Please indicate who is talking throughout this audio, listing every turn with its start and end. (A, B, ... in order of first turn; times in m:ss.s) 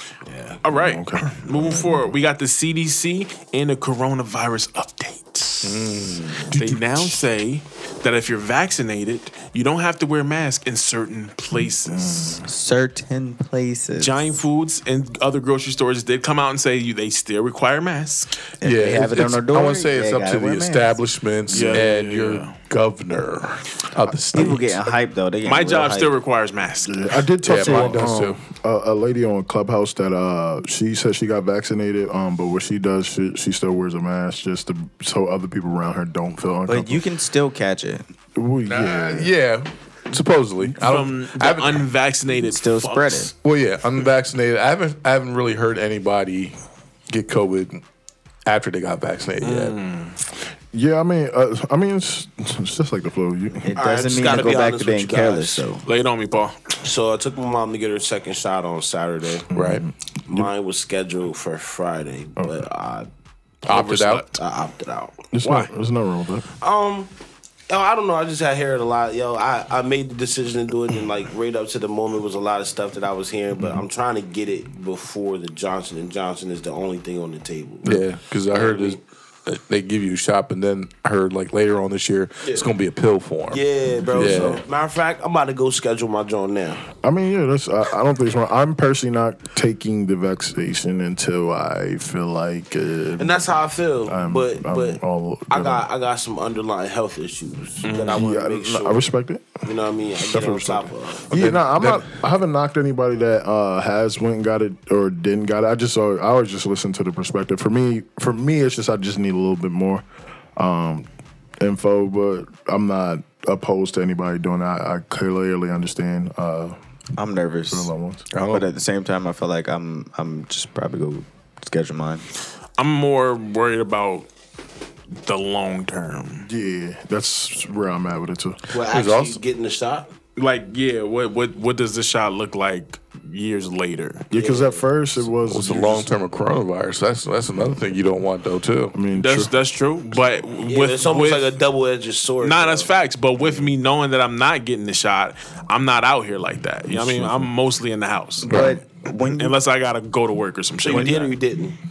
0:00.2-0:00.6 A
0:00.6-0:12.4 B
0:00.7-0:02.1 C
0:05.6-0:06.8 D
0:11.8-0:12.4 C
0:12.4-0:14.4 E
0:14.0-0:18.4 B
0:18.6-0:21.0 E
0:18.6-0:24.8 D
0:21.5-0:22.6 B
0:24.3-0:26.1 E
0:25.4-0:27.2 B
0:26.8-0:37.0 C
0:27.4-0:28.4 D
0:27.6-0:28.0 E
0:36.7-0:38.1 E
0:38.4-0:39.3 C
0:38.7-0:41.9 D
0:40.8-0:43.3 B
0:42.3-0:43.3 E
0:43.4-0:46.6 D
0:47.1-0:47.8 D
0:48.5-0:49.8 D
0:49.4-0:50.2 B
0:50.7-0:53.7 C
0:53.6-0:55.8 E
0:53.8-0:55.6 A
0:55.9-0:56.8 B
0:56.8-0:59.5 A
0:59.5-1:00.5 C
0:59.5-0:59.9 D
1:00.3-1:03.1 A
1:03.7-1:04.3 B
1:03.7-1:04.4 D
1:04.4-1:05.3 A
1:05.3-1:06.5 C
1:06.6-1:07.1 A
1:07.7-1:19.0 A
1:13.6-1:13.8 C
1:17.8-1:23.6 D
1:23.5-1:26.8 A
1:24.0-1:24.6 C
1:24.2-1:24.6 D
1:27.0-1:33.5 C
1:33.2-1:39.1 A
1:34.0-1:35.9 C
1:37.8-1:38.2 B
1:38.1-1:39.6 C
1:39.6-1:41.4 A
1:40.2-1:50.0 C
1:41.3-1:42.2 D
1:50.6-1:51.1 C
1:51.6-1:56.8 C
1:57.2-1:57.9 E
1:57.7-1:58.3 C
1:58.3-1:58.7 D
1:58.5-2:02.2 E
2:02.8-2:04.3 B
2:05.2-2:06.5 B
2:06.4-2:08.6 C
2:08.7-2:10.1 A
2:08.9-2:09.4 D
2:10.4-2:14.3 B
2:14.3-2:16.1 C
2:14.3-2:14.8 A
2:15.4-2:19.0 D
2:18.9-2:19.5 C
2:19.2-2:21.6 B
2:20.7-2:22.9 A
2:22.4-2:31.4 B
2:26.9-2:27.5 C
2:28.4-2:29.6 E
2:28.5-2:28.8 D
2:30.8-2:31.8 A
2:30.9-2:31.2 E